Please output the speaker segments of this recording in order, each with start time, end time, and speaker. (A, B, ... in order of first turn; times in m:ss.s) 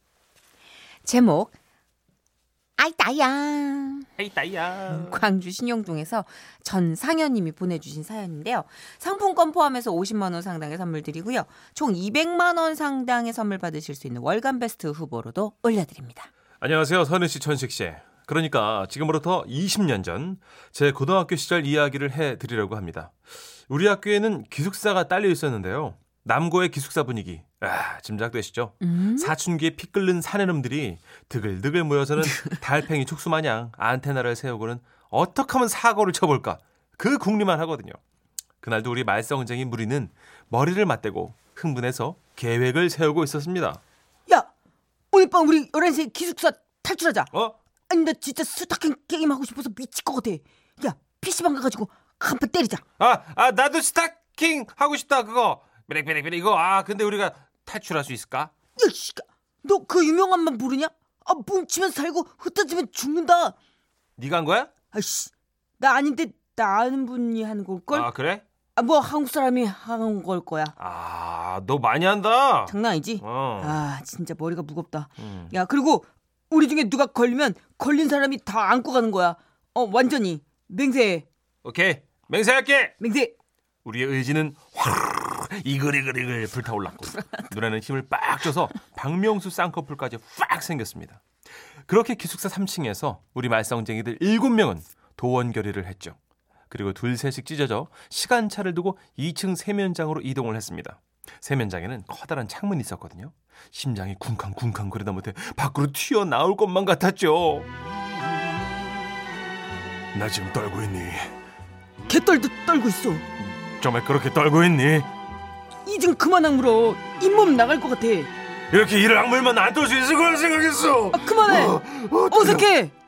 0:01.0-0:01.6 A
0:02.8-0:04.1 A
0:04.2-0:05.3 B
0:04.9-0:16.3 A
0:16.6-0:23.1 B
0:23.7-0:38.0 B
0:28.8-0:29.3 A
0:38.6-0:43.8 B
0:45.1-0:47.3 A
0:47.9-0:52.8 A
0:53.0-0:58.5 B
0:58.8-1:03.5 A
1:04.2-1:04.7 B
1:04.9-1:08.1 A
1:07.9-1:08.4 B
1:08.8-1:10.7 A
1:10.8-1:13.8 B
1:12.7-1:21.2 A
1:15.2-1:15.5 B
1:21.6-1:22.9 B
1:23.0-1:23.3 A
1:23.8-1:31.2 B
1:27.2-1:27.4 A
1:31.9-1:36.2 B
1:36.7-1:47.7 B
1:50.1-1:51.3 B
1:52.1-1:53.2 A
1:53.4-1:55.1 B
1:55.8-1:58.3 A
1:58.7-2:02.7 B
2:01.1-2:02.9 A